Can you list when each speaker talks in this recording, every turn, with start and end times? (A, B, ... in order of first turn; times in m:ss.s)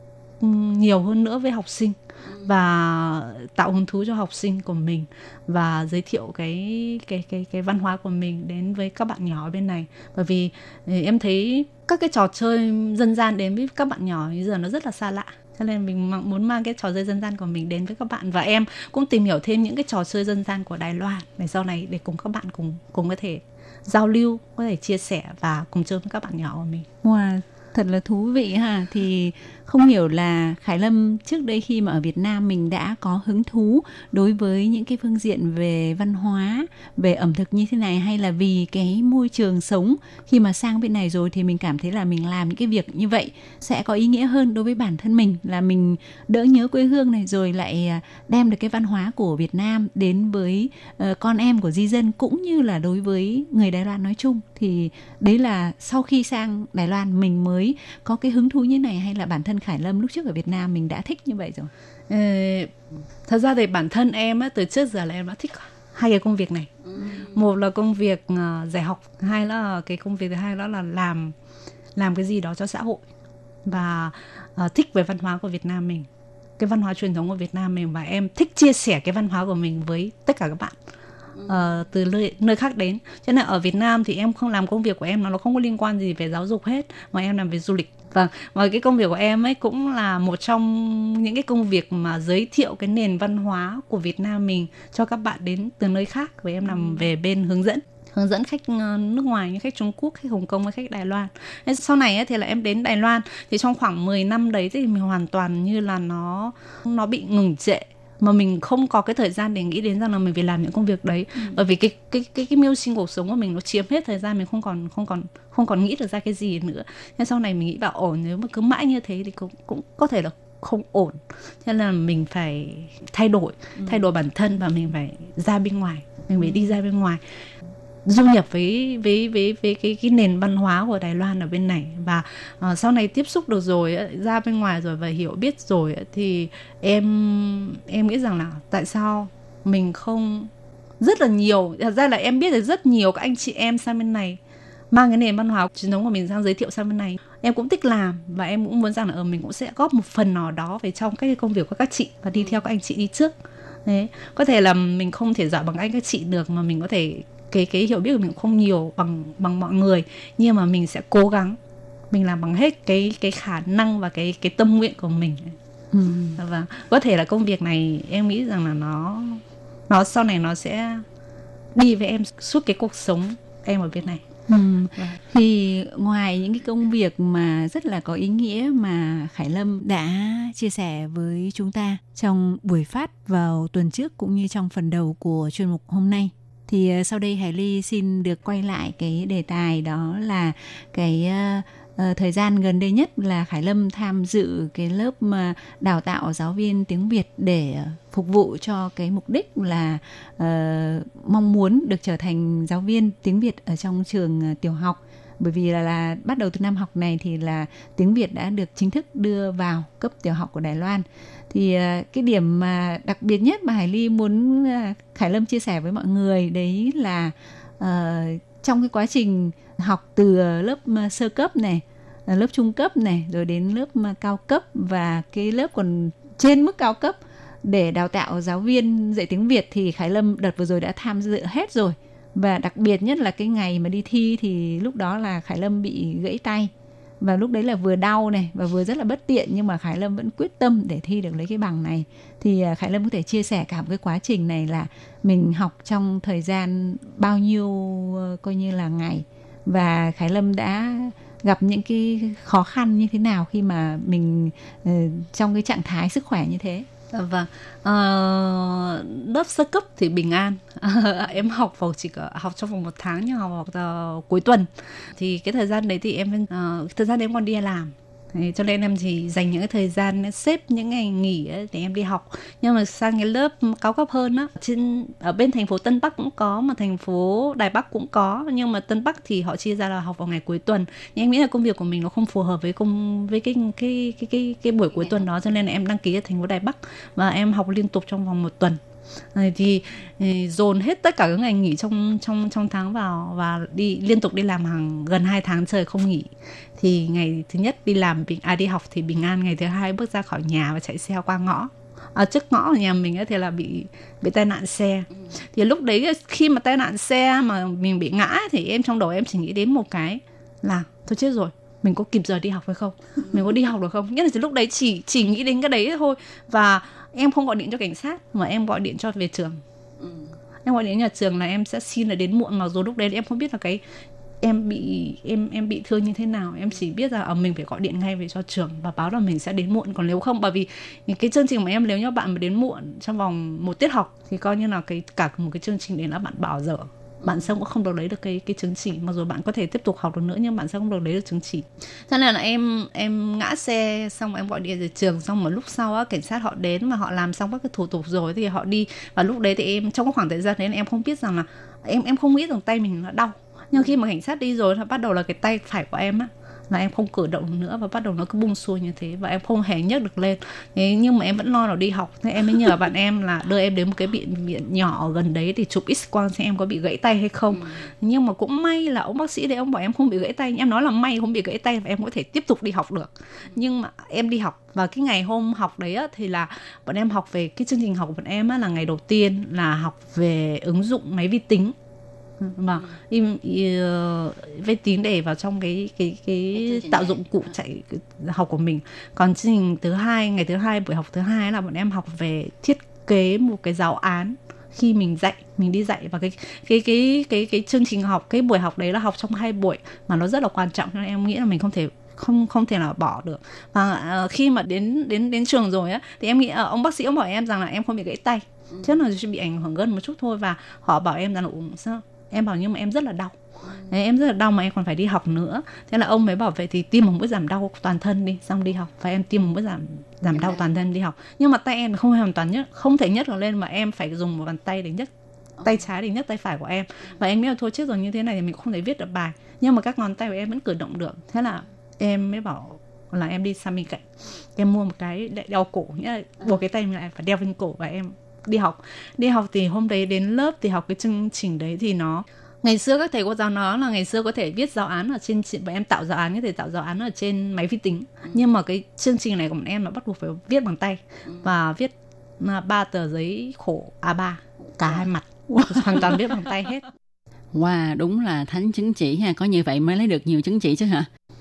0:00.4-0:26.9 A
0:27.0-1:01.7 B
1:02.1-1:02.7 A
1:03.3-1:11.3 A
1:12.0-1:13.0 A
1:13.6-1:16.1 A
1:16.6-1:20.7 A
1:21.4-2:07.2 A
2:03.8-2:04.1 B
2:06.4-2:06.8 B
2:08.0-2:24.4 A
2:24.9-2:33.3 A
2:33.9-2:41.6 A
2:42.1-2:45.6 A
2:45.9-2:46.4 B
2:46.4-2:51.0 A
2:51.7-2:54.3 A
2:54.4-4:16.9 B
4:17.1-4:48.8 A
4:44.9-4:45.3 C
4:49.3-5:19.6 A
5:20.0-5:20.3 C
5:20.6-5:23.8 A
5:24.4-6:21.7 A
6:07.5-6:07.9 C
6:22.4-6:53.4 A
6:26.6-6:27.3 C
6:53.9-7:05.1 A
7:00.3-7:00.7 C
7:05.6-7:05.8 C
7:05.6-7:14.0 A
7:14.6-7:36.8 A
7:37.5-7:41.1 C